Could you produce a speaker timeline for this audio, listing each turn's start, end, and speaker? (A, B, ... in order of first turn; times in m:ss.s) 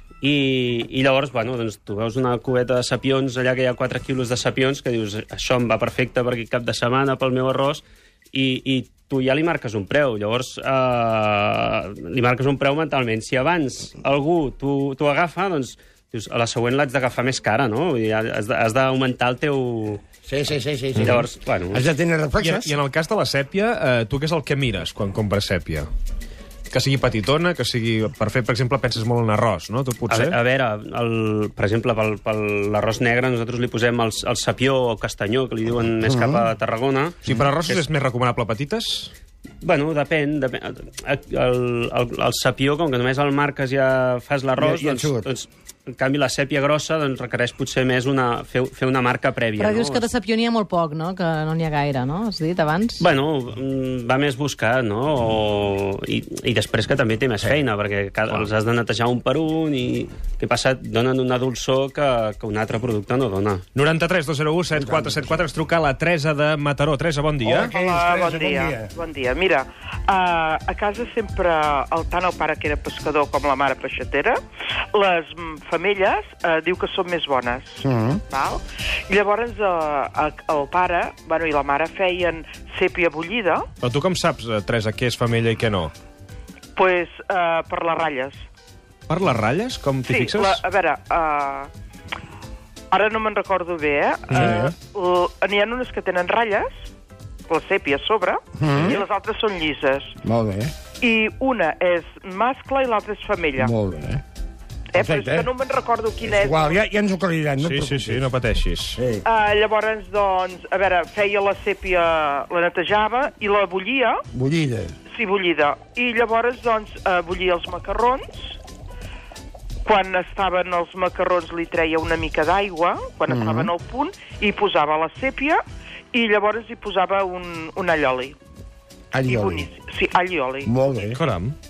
0:00.2-0:20.0 A
0:20.2-0:22.7 B
0:21.0-0:21.8 A
0:22.4-0:25.8 C
0:26.7-0:30.4 C
0:30.1-0:37.9 A
0:36.0-0:36.4 B
0:37.2-0:39.1 C
0:39.6-0:50.1 A
0:44.6-0:45.3 B
0:49.6-0:53.0 D
0:53.0-1:03.6 A
1:03.7-1:07.7 C
1:04.8-1:05.4 B
1:07.4-1:08.9 B
1:07.7-1:14.4 E
1:14.9-1:23.6 E
1:17.8-1:18.2 B
1:23.8-1:25.9 C
1:26.8-1:28.4 E
1:29.1-1:30.6 C
1:30.1-1:31.7 E
1:32.9-1:36.7 E
1:34.3-1:34.7 B
1:37.5-1:40.1 E
1:38.6-1:39.0 B
1:38.7-1:39.0 C
1:40.2-1:40.7 B
1:41.0-1:43.7 E
1:43.6-1:44.2 B
1:44.9-1:46.6 E
1:45.0-1:45.5 B
1:46.2-1:48.3 B
1:47.6-1:49.0 C
1:49.0-1:49.2 B
1:49.2-1:54.2 E
1:54.3-1:54.9 B
1:55.1-1:58.5 E
1:59.8-2:05.6 E
2:03.3-2:03.7 B
2:06.1-2:08.3 E
2:09.1-2:09.6 B
2:09.2-2:10.7 E
2:10.6-2:11.2 B
2:11.1-2:11.5 C